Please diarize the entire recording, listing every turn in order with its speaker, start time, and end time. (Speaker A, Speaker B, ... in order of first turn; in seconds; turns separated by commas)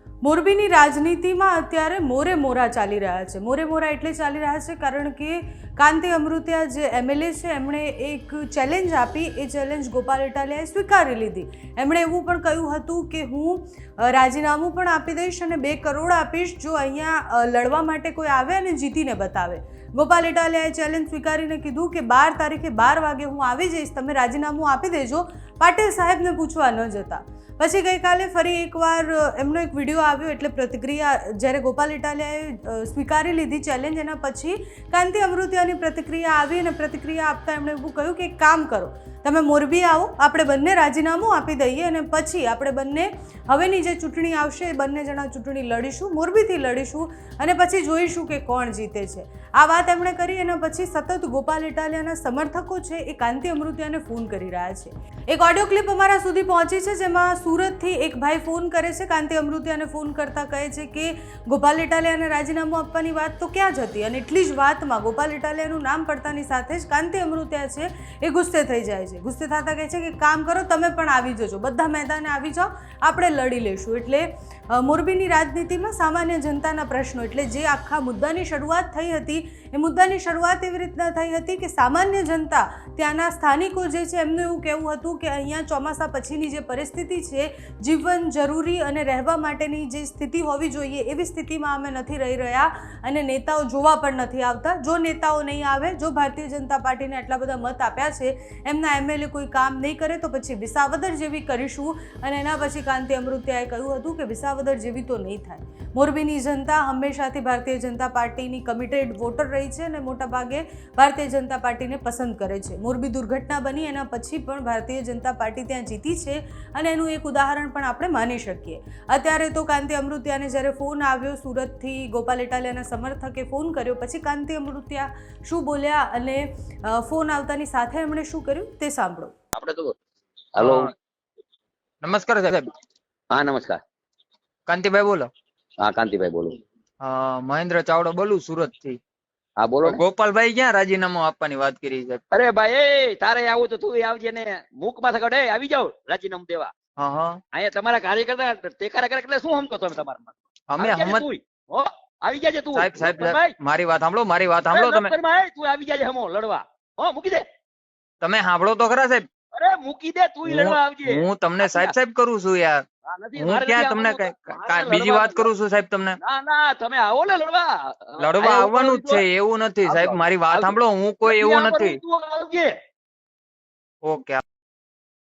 Speaker A: 0.2-74.2, Speaker A: 74.8-126.4, Speaker A: 127.0-129.3, Speaker B: 129.5-129.9, Speaker B: 130.6-130.9, Speaker C: 130.6-130.9, Speaker C: 132.0-132.7, Speaker B: 133.3-133.8, Speaker C: 134.7-135.3, Speaker B: 135.8-136.5, Speaker C: 137.0-139.0, Speaker B: 139.6-140.0, Speaker C: 139.8-142.2, Speaker B: 142.3-146.7, Speaker C: 147.0-147.4, Speaker B: 147.5-153.5, Speaker C: 150.7-151.2, Speaker C: 152.7-155.1, Speaker B: 154.7-157.4, Speaker C: 158.2-159.2, Speaker B: 159.6-161.9, Speaker C: 160.4-162.8, Speaker B: 163.1-165.5, Speaker C: 163.4-166.2, Speaker B: 166.2-169.2, Speaker C: 168.2-172.0, Speaker B: 169.8-172.7, Speaker C: 174.0-174.4